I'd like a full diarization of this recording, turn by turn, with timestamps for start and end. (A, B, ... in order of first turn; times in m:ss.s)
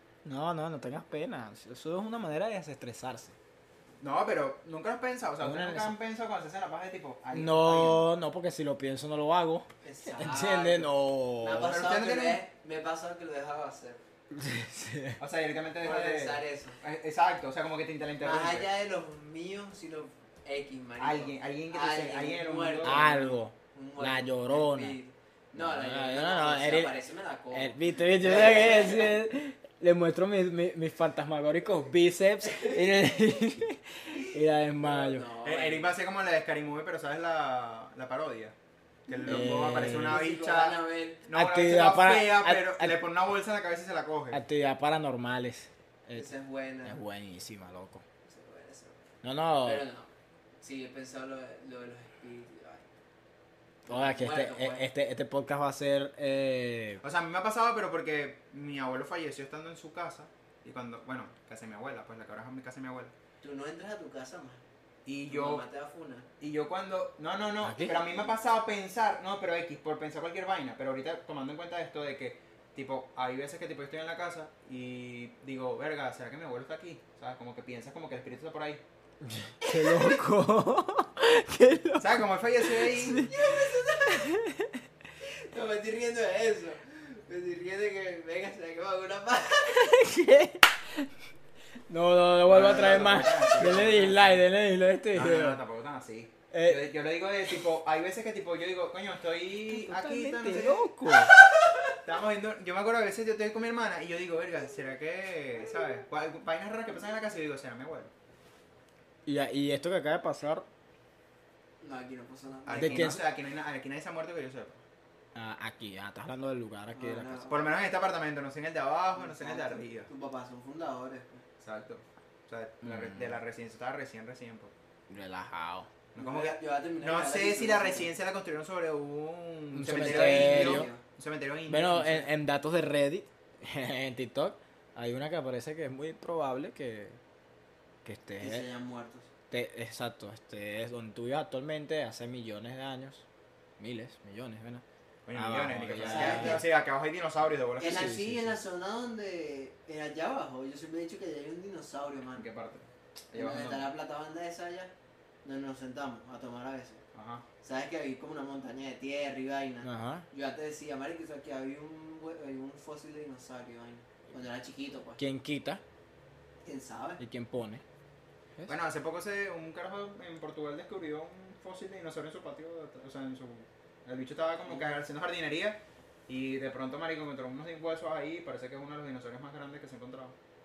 0:00.2-0:03.4 A
0:04.0-0:08.0 B
0:05.4-0:06.0 A
0:07.3-0:11.8 A
0:09.8-0:14.0 C
0:11.6-0:12.4 B
0:14.3-0:15.2 A
0:15.2-0:18.7 B
0:15.8-0:16.8 C
0:18.2-0:23.2 C
0:21.0-0:23.4 B
0:22.8-0:25.0 A
0:23.7-0:29.2 C
0:25.6-0:27.0 A
0:27.5-0:35.3 A
0:32.5-0:32.8 C
0:34.8-0:36.0 C
0:35.4-0:38.6 B
0:39.1-0:41.2 C
0:39.1-0:44.4 B
0:39.2-0:40.2 A
0:41.3-0:43.0 A
0:44.3-0:46.3 A
0:46.2-0:47.0 C
0:46.8-0:48.0 A
0:48.2-0:52.9 C
0:49.2-0:49.8 A
0:53.9-0:54.8 C
0:53.9-0:57.0 A
0:57.0-1:03.1 B
1:03.4-1:04.6 C
1:05.1-1:05.6 B
1:05.3-1:06.3 C
1:06.4-1:18.8 B
1:07.6-1:08.0 A
1:19.2-1:24.8 A
1:19.6-1:20.2 C
1:22.0-1:23.3 B
1:23.1-1:24.3 C
1:25.2-1:30.0 C
1:29.7-1:31.1 A
1:31.9-1:35.6 A
1:32.4-1:34.4 B
1:35.1-1:40.9 B
1:36.5-1:36.9 A
1:39.7-1:41.3 A
1:41.7-1:41.9 C
1:42.0-1:48.1 B
1:49.3-1:50.7 A
1:51.8-1:53.2 C
1:52.7-1:54.8 B
1:52.8-1:53.2 A
1:55.4-1:57.5 A
1:56.9-1:57.7 C
1:57.5-2:00.1 B
1:59.2-2:01.4 C
2:01.6-2:04.7 B
2:02.8-2:03.4 A
2:05.1-2:05.9 A
2:06.2-2:12.3 B
2:06.2-2:08.1 C
2:09.7-2:10.9 A
2:09.9-2:11.0 C
2:11.7-2:17.2 A
2:18.0-2:18.7 A
2:18.4-2:19.3 C
2:19.5-2:23.3 A
2:23.8-2:26.6 A
2:25.3-2:28.2 B
2:26.0-2:26.6 C
2:27.8-2:32.5 C
2:27.8-2:28.6 A
2:32.4-2:33.9 B
2:33.3-2:34.9 C
2:35.4-2:37.0 C
2:37.2-2:37.4 B
2:37.6-2:45.2 C
2:39.8-2:40.3 A
2:45.2-2:45.8 A
2:46.6-2:47.2 C
2:47.2-2:47.8 A
2:48.7-3:00.4 B
2:54.7-2:54.9 C